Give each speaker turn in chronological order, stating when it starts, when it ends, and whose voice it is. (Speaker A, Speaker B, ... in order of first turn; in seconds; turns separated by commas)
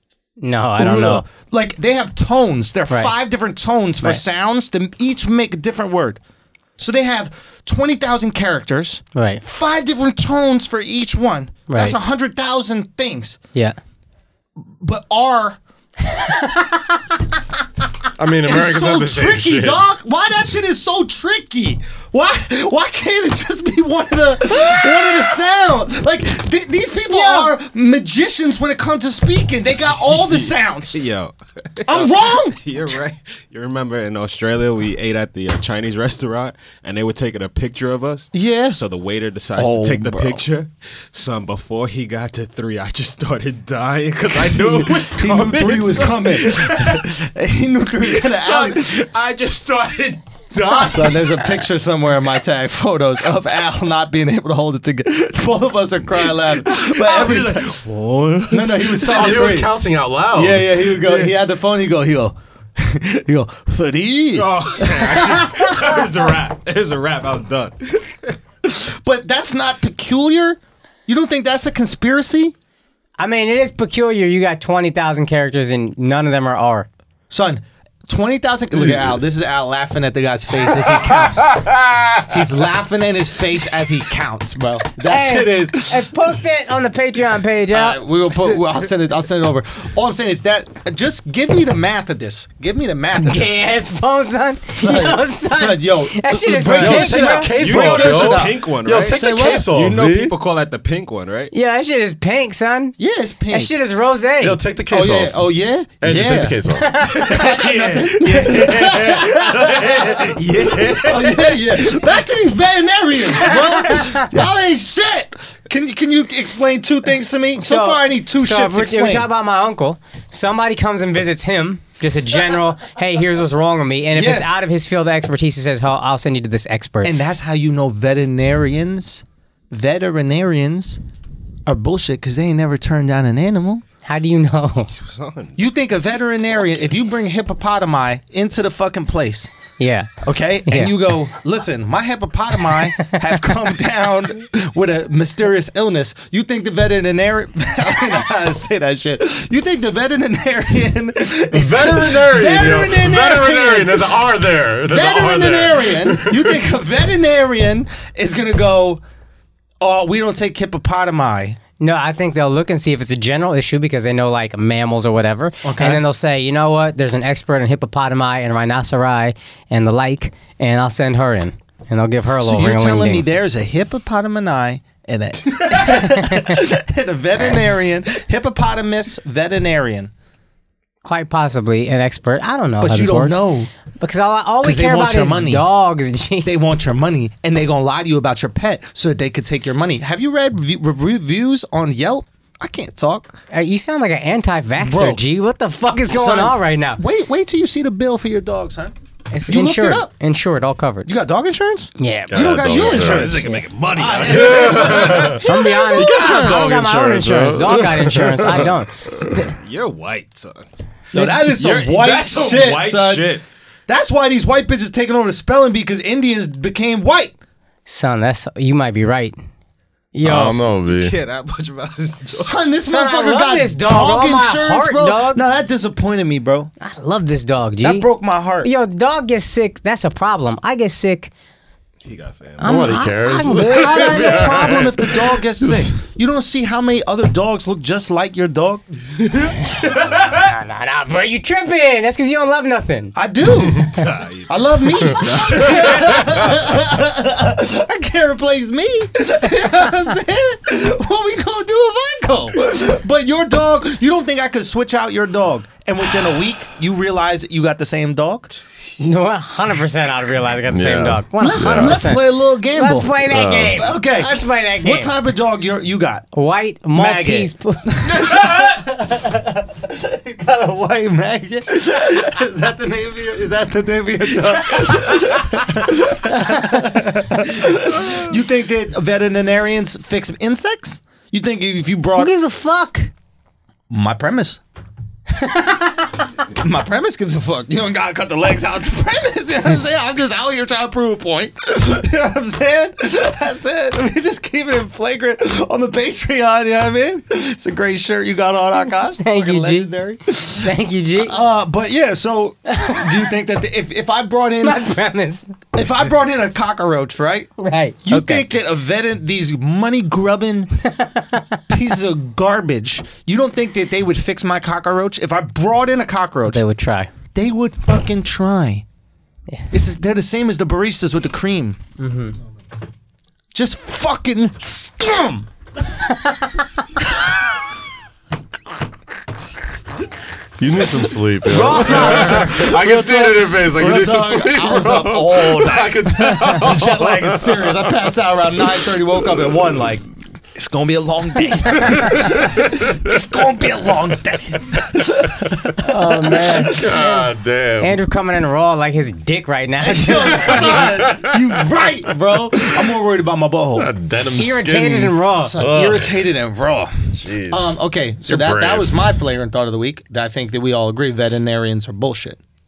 Speaker A: 0.4-1.2, Speaker B: 0.8-6.2, Speaker B: 6.8-13.4, Speaker A: 9.1-9.4, Speaker A: 11.7-12.0, Speaker B: 14.6-15.6, Speaker A: 16.2-16.9, Speaker C: 18.1-19.8, Speaker B: 18.4-31.0, Speaker A: 27.1-27.5, Speaker D: 30.0-47.1, Speaker B: 31.9-32.6, Speaker B: 38.3-38.8, Speaker B: 39.5-40.4, Speaker B: 44.3-49.0, Speaker D: 48.0-51.6, Speaker B: 50.6-57.8, Speaker D: 56.5-59.2, Speaker B: 58.5-59.7, Speaker C: 59.0-60.8, Speaker B: 60.3-65.8, Speaker D: 60.8-61.3, Speaker D: 64.3-68.4, Speaker B: 68.6-72.5, Speaker A: 73.2-76.9, Speaker B: 77.3-81.6, Speaker C: 81.6-82.2, Speaker B: 82.3-86.1, Speaker A: 85.0-88.0, Speaker B: 87.7-93.7, Speaker A: 93.2-97.5, Speaker B: 94.8-99.7, Speaker C: 96.8-100.3, Speaker D: 97.5-101.5, Speaker A: 101.5-103.0, Speaker B: 103.0-103.7, Speaker A: 103.5-104.6, Speaker C: 104.4-105.4, Speaker B: 104.9-106.6, Speaker C: 106.0-107.0, Speaker A: 106.8-107.3, Speaker D: 107.1-112.0, Speaker B: 107.2-119.3, Speaker A: 113.9-114.2, Speaker A: 117.6-127.1, Speaker B: 124.1-124.5, Speaker B: 127.0-131.0, Speaker B: 131.7-133.8, Speaker A: 134.0-134.9, Speaker D: 134.9-135.6, Speaker B: 135.6-139.5, Speaker A: 139.8-140.1, Speaker B: 140.2-154.1, Speaker A: 140.7-140.9, Speaker C: 151.5-156.6, Speaker B: 154.9-159.0, Speaker B: 159.8-161.6, Speaker A: 161.8-173.3, Speaker B: 165.6-166.0, Speaker B: 172.4-180.1, Speaker A: 175.9-176.6, Speaker A: 181.0-183.4, Speaker B: 182.8-183.7, Speaker A: 184.0-186.5, Speaker B: 184.6-185.6, Speaker B: 186.4-193.4, Speaker A: 193.5-197.0, Speaker B: 194.8-195.2, Speaker B: 196.1-198.9, Speaker A: 199.3-201.1, Speaker B: 199.5-200.1, Speaker B: 201.1-206.8, Speaker A: 202.0-202.7, Speaker C: 202.3-203.4, Speaker D: 202.7-205.4, Speaker C: 204.2-208.7, Speaker A: 205.4-209.5, Speaker D: 209.3-210.6, Speaker B: 211.1-217.3, Speaker A: 211.1-211.4, Speaker D: 211.5-213.4, Speaker A: 217.8-219.4, Speaker A: 220.1-220.6, Speaker C: 220.2-221.1, Speaker D: 220.8-222.6, Speaker B: 222.3-226.7, Speaker A: 222.8-225.4, Speaker A: 226.8-228.1, Speaker B: 227.8-228.7, Speaker A: 228.6-231.3, Speaker D: 232.0-232.9, Speaker A: 232.6-234.8, Speaker C: 232.6-235.8, Speaker B: 233.5-239.4, Speaker A: 239.8-243.1, Speaker B: 243.1-258.5, Speaker D: 243.8-246.3, Speaker A: 259.0-265.1, Speaker C: 260.7-262.1, Speaker B: 261.4-266.3, Speaker C: 263.3-263.9, Speaker A: 266.3-268.1, Speaker B: 266.9-282.3, Speaker A: 276.4-276.7, Speaker A: 282.2-283.1, Speaker B: 283.9-284.6, Speaker A: 285.4-286.0, Speaker B: 286.5-304.9, Speaker A: 299.2-299.9, Speaker A: 300.5-301.4, Speaker A: 302.8-303.2, Speaker A: 304.6-305.5, Speaker B: 305.7-307.5, Speaker A: 307.6-308.5, Speaker B: 308.1-310.8, Speaker A: 310.9-311.6, Speaker B: 311.7-316.6, Speaker A: 316.5-317.1, Speaker B: 317.3-318.8, Speaker B: 319.7-321.8, Speaker A: 322.0-322.3, Speaker B: 323.5-325.5, Speaker A: 326.1-326.4, Speaker C: 330.6-337.9, Speaker A: 331.4-332.5, Speaker B: 331.4-347.2, Speaker C: 342.0-343.1, Speaker A: 345.9-347.1, Speaker C: 346.6-348.0, Speaker A: 347.8-350.9, Speaker B: 349.8-353.9, Speaker C: 350.4-351.6, Speaker C: 353.7-356.2, Speaker A: 354.3-355.6, Speaker B: 355.4-362.4, Speaker C: 357.2-359.0